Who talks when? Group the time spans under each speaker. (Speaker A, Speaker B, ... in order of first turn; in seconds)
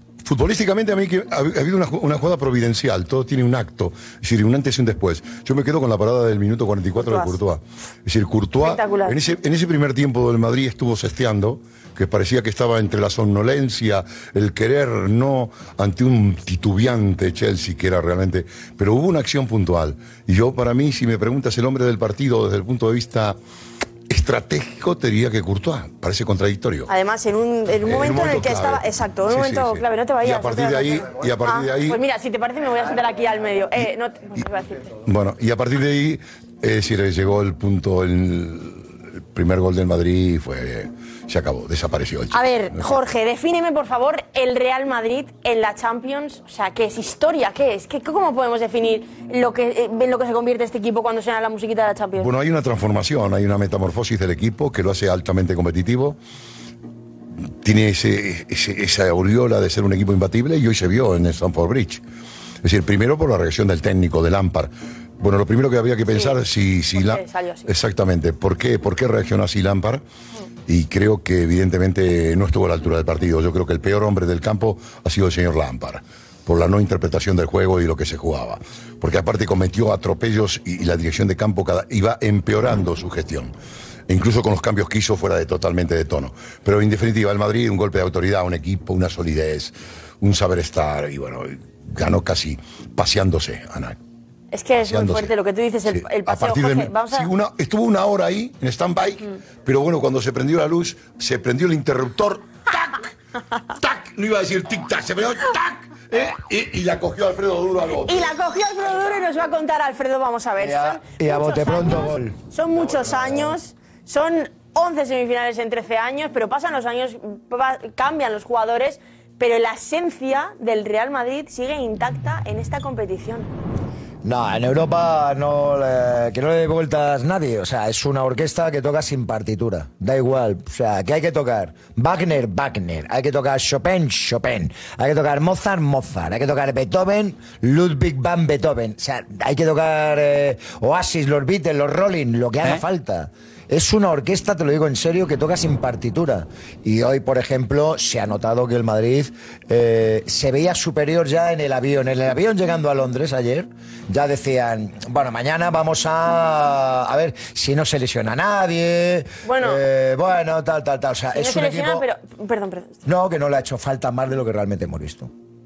Speaker A: 0.2-23.4, 24.1-26.9, 27.8-32.0, 35.0-43.0, 52.2-56.2, 57.6-62.0, 62.6-70.0, 70.7-83.5, 84.1-94.0, 94.9-95.3, 95.9-103.1, 103.8-108.3
Speaker B: 7.0-7.3, 8.6-9.1, 26.9-35.0, 42.3-52.3, 66.1-66.3, 67.0-67.7, 94.5-97.3, 108.0-123.5, 159.4-159.8, 161.3-163.0
Speaker C: 110.6-112.3, 124.2-162.1, 163.0-165.3